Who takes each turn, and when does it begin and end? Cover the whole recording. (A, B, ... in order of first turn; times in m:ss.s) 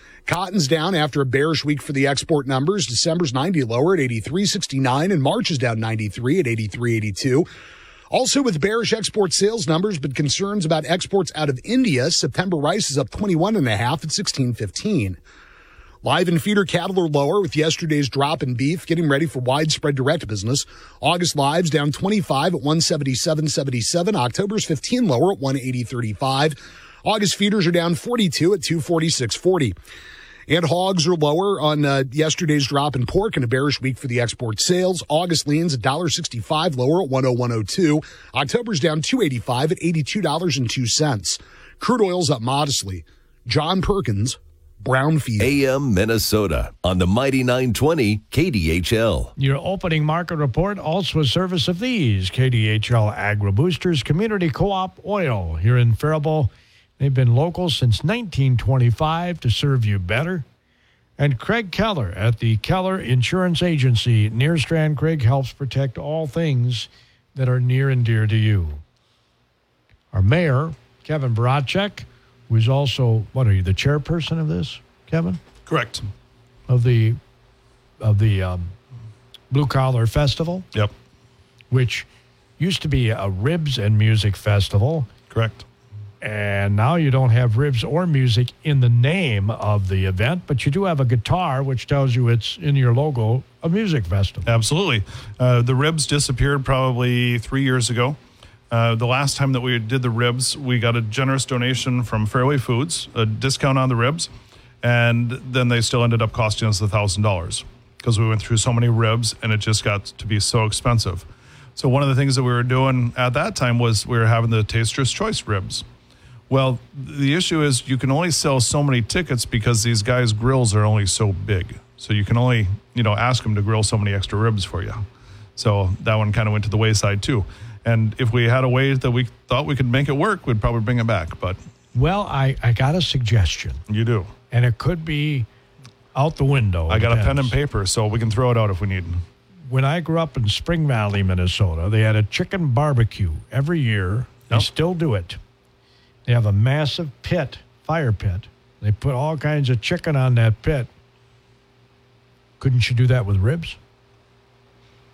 0:00.3-0:07.5 A
0:08.1-0:15.2 A
0:16.0-0:29.7 A
0:30.5-0:45.6 A
0:45.4-0:49.3 B
0:49.4-1:00.4 C
1:01.2-1:08.8 C
1:10.1-1:15.4 C
1:15.7-1:16.0 D
1:16.7-1:17.2 C
1:18.0-1:18.7 C
1:19.5-1:20.6 C
1:21.7-1:22.1 C
1:22.6-1:25.1 C
1:25.3-1:25.6 D
1:26.2-1:34.5 C
1:34.4-1:38.2 D
1:38.7-1:44.3 D
1:44.8-1:55.8 D
1:56.5-2:05.0 D
2:05.6-2:11.6 D
2:11.9-2:13.8 C
2:13.9-2:14.3 D
2:14.5-2:15.5 C
2:16.1-2:17.5 C
2:16.9-2:19.2 D
2:19.7-2:25.4 C
2:26.2-2:30.9 C
2:32.6-2:33.8 C